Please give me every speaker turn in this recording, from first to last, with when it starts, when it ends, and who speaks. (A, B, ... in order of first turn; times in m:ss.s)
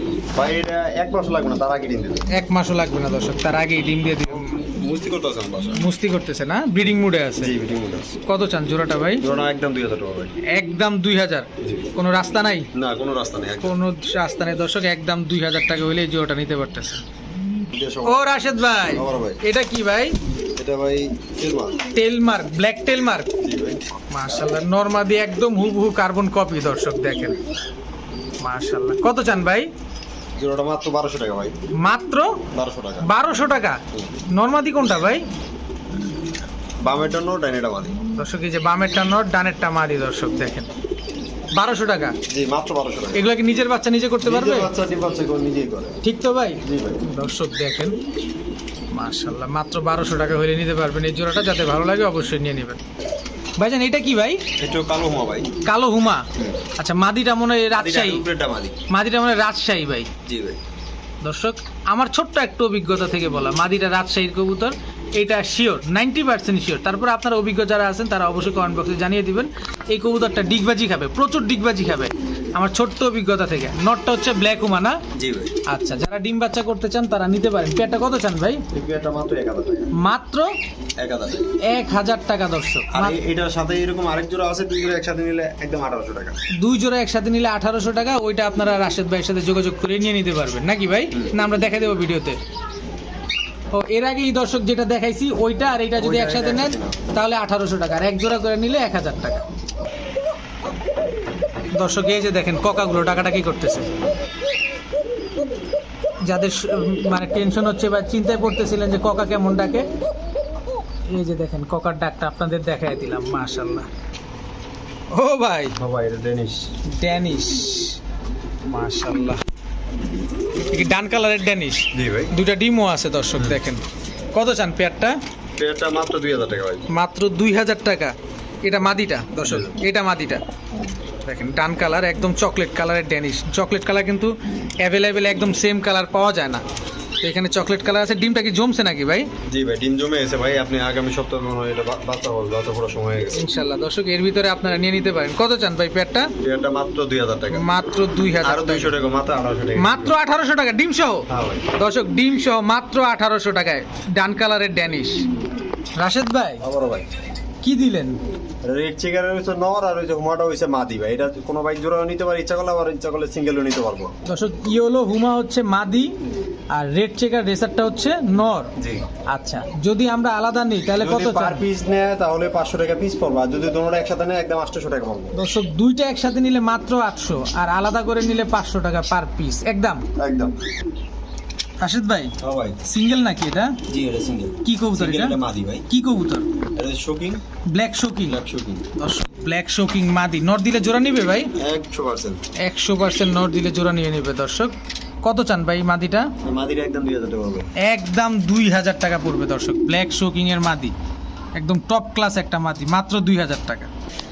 0:00.3-0:02.2 A
0:02.3-0:04.6 B
0:04.3-0:05.8 A
0:05.8-0:07.5 B
0:07.4-0:08.2 A
0:08.2-0:09.2 B
0:09.2-0:10.3 A
0:10.5-0:12.7 B
0:11.6-0:11.9 A
0:12.7-0:13.8 A
0:13.6-0:17.0 B
0:17.7-0:19.4 A
0:18.0-0:20.2 B
0:20.6-0:21.8 A
0:21.9-0:23.3 B
0:23.4-0:23.8 A
0:24.1-0:27.4 B
0:28.4-0:29.7 B
0:30.4-0:31.5 A
0:31.8-0:32.4 B
0:32.5-0:33.1 A
0:33.0-0:35.2 B
0:36.8-0:38.0 A
0:38.2-0:40.7 B
0:41.5-0:42.2 B
0:42.3-0:43.3 A
0:43.1-0:44.7 B
0:44.2-0:46.0 A
0:46.0-0:48.0 B
0:46.6-0:47.0 A
0:48.9-0:52.8 B
0:53.6-0:54.4 B
0:54.6-0:55.5 A
0:55.6-0:58.2 B
0:57.7-0:58.8 A
0:58.9-1:00.1 B
1:00.2-1:00.6 A
1:01.2-1:15.0 B
1:15.1-1:15.5 A
1:15.7-1:18.6 B
1:18.7-1:19.9 A
1:19.9-1:20.5 B
1:21.0-1:21.5 A
1:21.6-1:23.2 B
1:22.9-1:26.4 A
1:26.6-1:32.4 B
1:33.7-1:39.4 B
1:36.0-1:37.0 A
1:41.7-1:43.9 B
1:46.2-1:49.8 B
1:51.1-1:53.9 B
1:55.1-1:55.8 B
1:55.8-1:56.7 A
1:56.9-1:58.0 B
1:58.6-1:59.4 B
2:00.7-2:03.8 B
2:01.9-2:02.3 A
2:04.3-2:05.2 B
2:05.6-2:06.9 A
2:06.9-2:08.1 B
2:08.6-2:10.4 B
2:09.4-2:09.7 A
2:11.2-2:16.6 B
2:17.2-2:19.3 B
2:19.4-2:23.4 A
2:23.3-2:26.3 B
2:26.4-2:27.6 A
2:27.5-2:28.9 B
2:28.4-2:30.2 A
2:29.8-2:35.2 B
2:31.3-2:31.7 A
2:36.0-2:36.6 B
2:36.6-2:37.1 A
2:37.6-2:38.2 B
2:38.6-2:44.1 A
2:44.2-2:46.1 B
2:46.7-2:48.7 B
2:48.8-2:49.0 A
2:49.3-2:51.6 B
2:51.0-2:55.3 A
2:55.3-3:00.0 B
3:00.2-3:00.6 A
3:01.8-3:03.8 B
3:02.4-3:02.8 A
3:03.9-3:05.8 A
3:04.6-3:05.4 B
3:05.9-3:06.5 B
3:06.7-3:07.4 A
3:07.7-3:08.4 B
3:08.3-3:08.8 A
3:09.0-3:11.5 B
3:11.6-3:12.4 A
3:12.6-3:16.3 B
3:16.4-3:17.7 A
3:17.8-3:20.9 B
3:21.6-3:23.9 B